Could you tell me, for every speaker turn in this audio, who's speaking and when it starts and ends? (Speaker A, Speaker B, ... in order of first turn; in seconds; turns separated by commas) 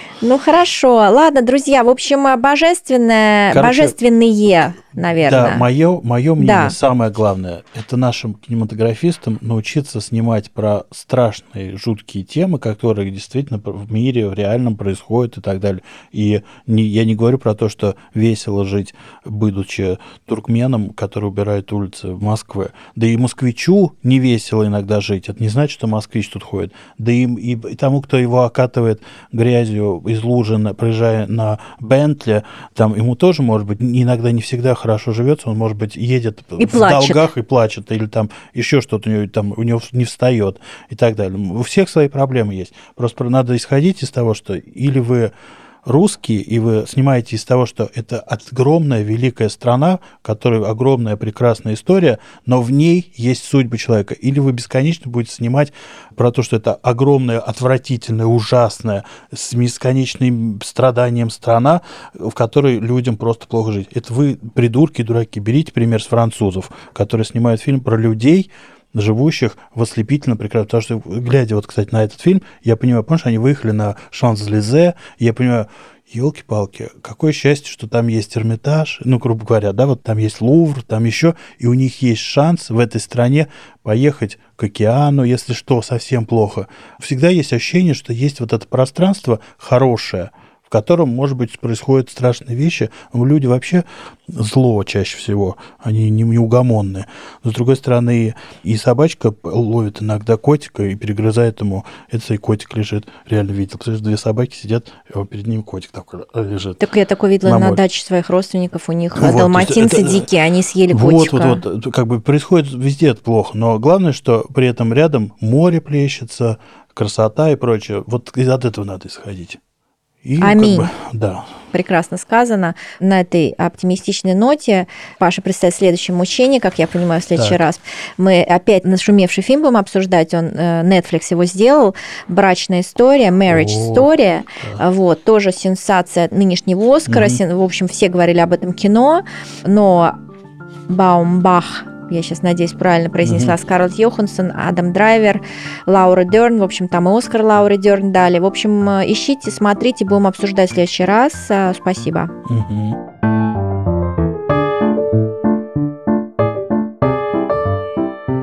Speaker A: 0.2-5.7, Speaker B: 3.5-4.0, Speaker B: 5.2-45.3, Speaker A: 6.4-6.8, Speaker A: 36.6-37.2, Speaker B: 45.9-106.9, Speaker A: 106.8-111.6, Speaker B: 107.4-107.8, Speaker B: 109.2-110.3, Speaker B: 110.9-119.6, Speaker B: 120.2-121.5, Speaker A: 120.4-120.9, Speaker A: 121.7-140.2, Speaker B: 127.3-127.6, Speaker B: 133.5-134.8, Speaker B: 137.1-137.4, Speaker A: 140.9-152.3, Speaker B: 143.2-143.6, Speaker B: 152.5-153.0